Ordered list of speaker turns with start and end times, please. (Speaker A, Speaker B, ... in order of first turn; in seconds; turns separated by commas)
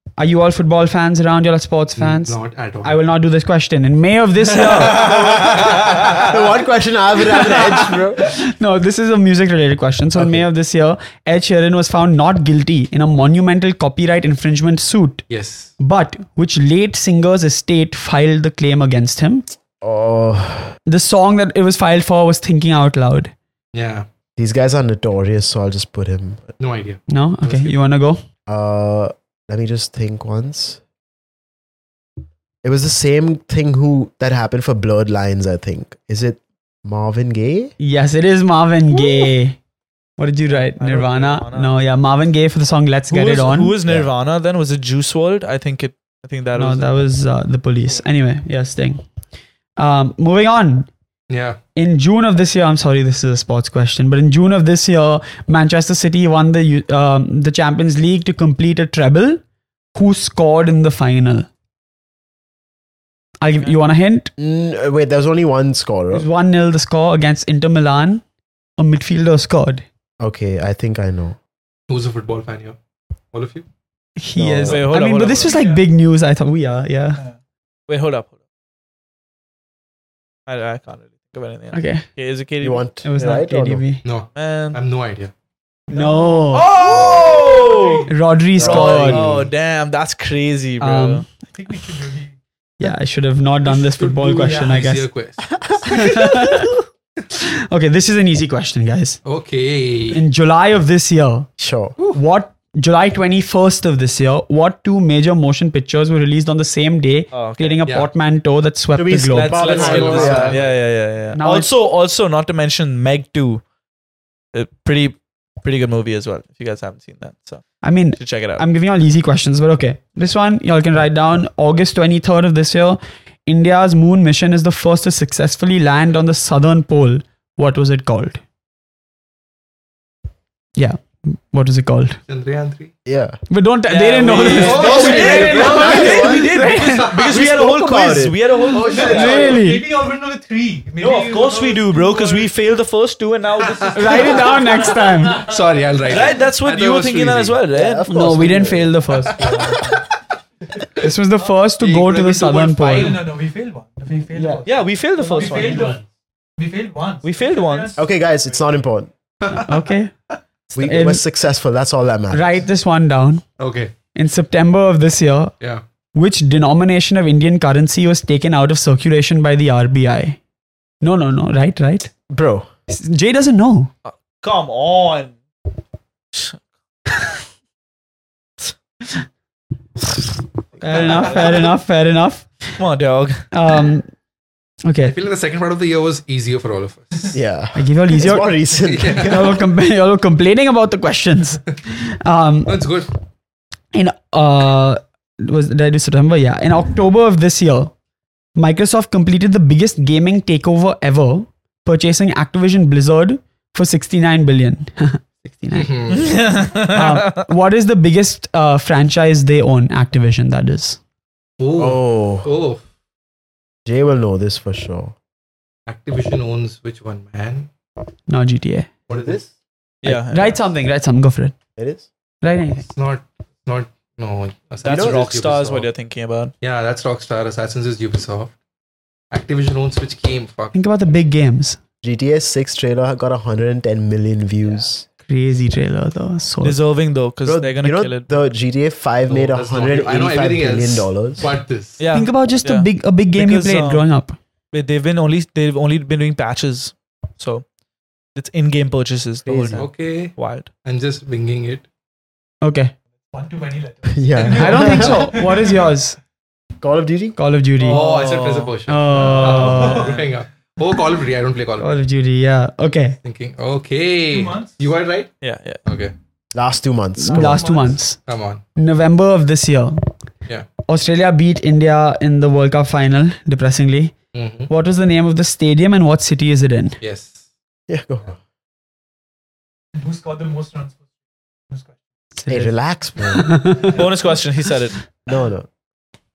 Speaker A: 0.2-5.2, Speaker B: 2.0-3.0, Speaker C: 4.8-5.2, Speaker B: 5.1-5.8, Speaker D: 5.3-8.3, Speaker C: 6.0-6.2, Speaker A: 7.7-15.2, Speaker D: 10.2-10.4, Speaker B: 15.3-15.7, Speaker A: 15.8-19.4, Speaker D: 19.8-20.7, Speaker A: 20.9-23.3, Speaker B: 23.7-24.1, Speaker D: 24.4-26.4, Speaker B: 26.6-27.7, Speaker A: 27.1-28.2, Speaker D: 28.5-30.8, Speaker D: 32.6-37.7, Speaker A: 37.8-39.6, Speaker A: 40.2-43.8, Speaker C: 40.5-41.7, Speaker C: 43.1-46.9, Speaker A: 46.5-49.0, Speaker A: 49.8-50.9, Speaker B: 51.3-51.6, Speaker A: 51.8-59.4, Speaker A: 59.9-61.5, Speaker A: 63.4-64.3, Speaker D: 64.4-66.3, Speaker A: 66.1-68.2, Speaker A: 68.8-69.8, Speaker D: 70.2-71.3, Speaker B: 71.9-72.8, Speaker B: 73.3-73.7, Speaker A: 74.2-77.2, Speaker D: 74.3-74.9, Speaker C: 74.6-75.5, Speaker E: 75.3-75.8, Speaker C: 77.9-78.3, Speaker C: 80.5-82.9, Speaker A: 81.7-82.1, Speaker D: 82.6-83.8, Speaker A: 83.0-84.0, Speaker B: 84.0-85.3, Speaker C: 84.3-84.8, Speaker E: 85.9-88.1, Speaker A: 85.9-86.7, Speaker C: 86.5-91.2, Speaker B: 86.8-87.3, Speaker A: 88.1-89.3, Speaker D: 88.6-89.5, Speaker A: 90.8-91.2, Speaker E: 91.5-92.3, Speaker A: 92.8-95.1, Speaker B: 93.6-96.2, Speaker E: 94.3-94.8, Speaker A: 95.9-99.2, Speaker B: 99.2-100.2, Speaker A: 100.1-101.5, Speaker D: 101.6-102.0, Speaker A: 102.1-109.8, Speaker C: 107.3-107.8, Speaker D: 108.9-110.6, Speaker C: 109.3-113.6, Speaker B: 109.7-110.8, Speaker A: 111.3-111.7, Speaker C: 114.5-117.6, Speaker A: 117.8-128.4, Speaker C: 118.2-118.6, Speaker A: 130.8-132.2, Speaker B: 132.3-132.9, Speaker D: 133.1-133.4, Speaker A: 133.5-137.2, Speaker C: 133.9-139.6, Speaker B: 134.5-137.4, Speaker E: 134.7-136.1, Speaker D: 135.8-136.4, Speaker D: 137.3-138.4, Speaker B: 138.6-139.6, Speaker E: 138.8-142.5, Speaker A: 139.0-139.9, Speaker C: 141.0-144.4, Speaker E: 143.7-145.4, Speaker A: 143.9-145.5, Speaker B: 145.4-147.6, Speaker C: 146.1-148.0, Speaker D: 147.7-148.9, Speaker A: 148.1-149.8, Speaker E: 149.3-150.0, Speaker B: 149.3-149.8, Speaker A: 151.0-153.2, Speaker B: 151.8-153.2, Speaker E: 152.9-156.0, Speaker A: 154.3-154.6, Speaker C: 154.6-156.0, Speaker A: 155.4-155.7, Speaker E: 156.6-158.0, Speaker C: 157.2-158.0, Speaker D: 158.0-159.1, Speaker B: 159.4-159.7, Speaker A: 159.5-160.1, Speaker A: 160.7-161.2, Speaker D: 160.8-162.6, Speaker A: 162.3-163.4, Speaker B: 163.6-163.9, Speaker A: 164.1-165.6, Speaker A: 166.1-170.4, Speaker A: 171.0-172.1, Speaker D: 172.3-172.7, Speaker A: 172.9-173.9, Speaker C: 174.0-175.4, Speaker C: 176.3-176.6, Speaker A: 180.8-182.6, Speaker C: 180.9-181.7, Speaker C: 182.8-183.5, Speaker A: 183.5-184.1, Speaker A: 184.8-185.2, Speaker B: 185.0-187.3, Speaker D: 187.3-189.4, Speaker A: 187.8-192.8, Speaker B: 188.8-189.5, Speaker B: 192.7-193.1, Speaker A: 193.9-197.9, Speaker A: 198.6-206.2, Speaker B: 205.7-206.3, Speaker C: 206.1-207.5, Speaker A: 206.7-211.0, Speaker B: 211.6-212.8, Speaker D: 211.8-212.5, Speaker D: 213.8-215.1, Speaker B: 215.8-217.7, Speaker A: 218.3-218.9, Speaker B: 219.1-219.5, Speaker C: 220.0-220.6, Speaker A: 220.0-221.5, Speaker D: 221.8-222.1, Speaker A: 222.4-222.9, Speaker B: 222.9-225.8, Speaker C: 224.8-226.5, Speaker D: 224.8-225.9, Speaker B: 226.6-228.5, Speaker B: 229.3-230.7, Speaker A: 230.7-231.8, Speaker D: 232.0-235.1, Speaker A: 235.2-236.8, Speaker C: 236.6-238.5, Speaker D: 237.4-241.5, Speaker B: 239.3-242.0, Speaker C: 242.0-244.0, Speaker A: 242.1-244.4, Speaker C: 244.7-247.6, Speaker C: 248.3-250.7, Speaker D: 249.4-249.9, Speaker B: 249.7-251.8, Speaker A: 252.6-252.9, Speaker E: 253.3-255.8, Speaker D: 254.1-255.3, Speaker A: 254.5-256.2, Speaker D: 256.8-257.4, Speaker A: 257.4-258.0, Speaker C: 257.8-258.7, Speaker B: 257.9-261.9, Speaker A: 258.9-260.2, Speaker E: 259.3-260.3, Speaker A: 261.8-263.2, Speaker B: 263.2-265.3, Speaker E: 264.3-264.8, Speaker C: 265.4-265.8, Speaker B: 265.8-266.1, Speaker D: 266.5-267.7, Speaker A: 267.2-268.2, Speaker E: 267.3-268.0, Speaker B: 268.2-268.6, Speaker A: 268.8-270.1, Speaker A: 270.8-274.1, Speaker B: 274.3-274.7, Speaker A: 274.7-277.0, Speaker B: 277.0-277.4, Speaker D: 277.9-278.4, Speaker E: 279.9-281.0, Speaker E: 281.7-281.9, Speaker A: 282.4-282.8, Speaker D: 282.5-283.5, Speaker A: 283.3-284.1, Speaker C: 283.9-285.0, Speaker D: 285.3-285.7